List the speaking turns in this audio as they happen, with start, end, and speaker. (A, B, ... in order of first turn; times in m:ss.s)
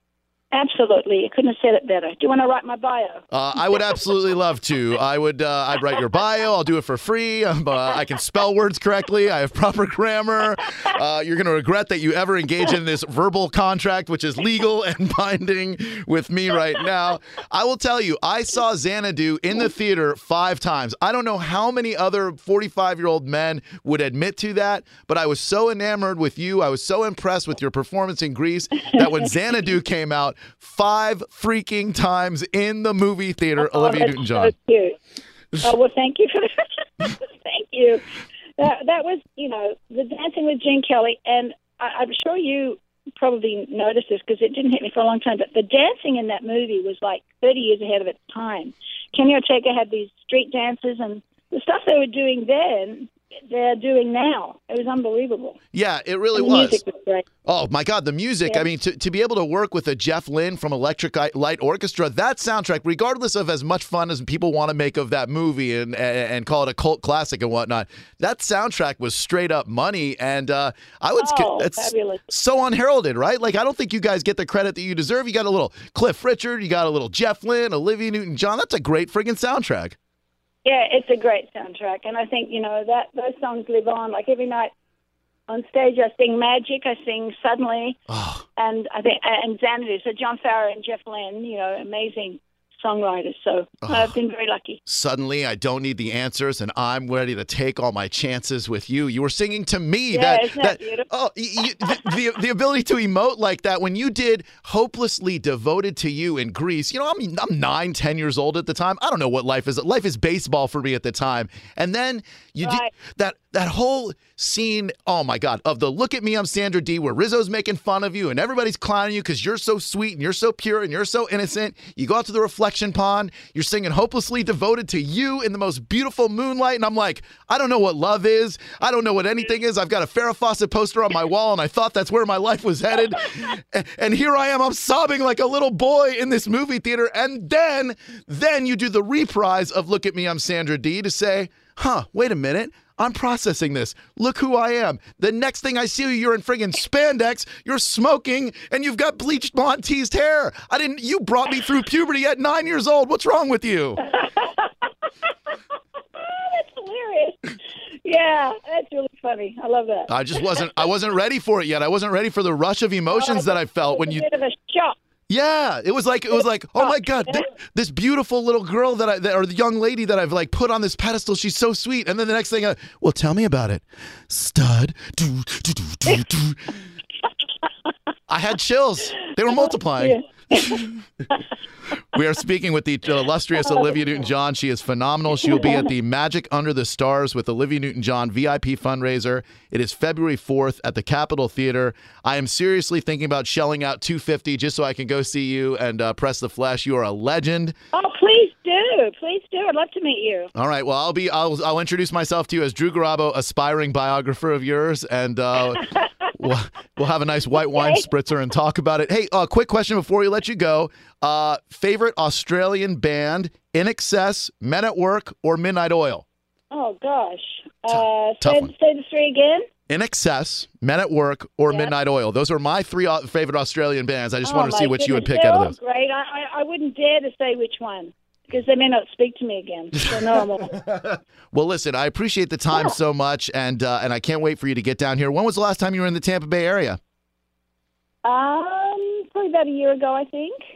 0:00.5-0:03.2 A
0:03.3-0:34.5 B
0:33.6-0:35.0 A
0:35.6-0:38.0 A
0:38.6-0:55.6 A
0:55.7-0:56.8 B
0:56.3-0:57.2 A
0:57.4-1:20.0 B
1:11.2-1:12.2 A
1:20.6-1:24.7 A
1:25.5-1:28.0 A
1:28.1-1:28.4 B
1:28.6-1:34.8 A
1:33.8-1:34.1 B
1:34.9-2:34.0 B
1:40.1-1:41.1 A
1:52.6-1:52.9 A
2:34.0-2:34.9 A
2:36.2-2:40.7 A
2:40.1-2:44.2 B
2:43.1-2:45.0 A
2:45.3-2:56.7 B
2:46.8-2:47.4 A
2:58.3-3:00.8 B
2:59.6-3:01.4 A
3:02.1-3:17.7 B
3:05.5-3:05.8 A
3:17.9-3:20.5 A
3:20.5-3:36.2 B
3:27.7-3:28.0 A
3:36.7-3:39.6 A
3:37.9-3:38.7 B
3:39.9-3:45.7 B
3:44.4-3:50.8 A
3:50.1-3:57.0 B
3:58.2-4:00.6 A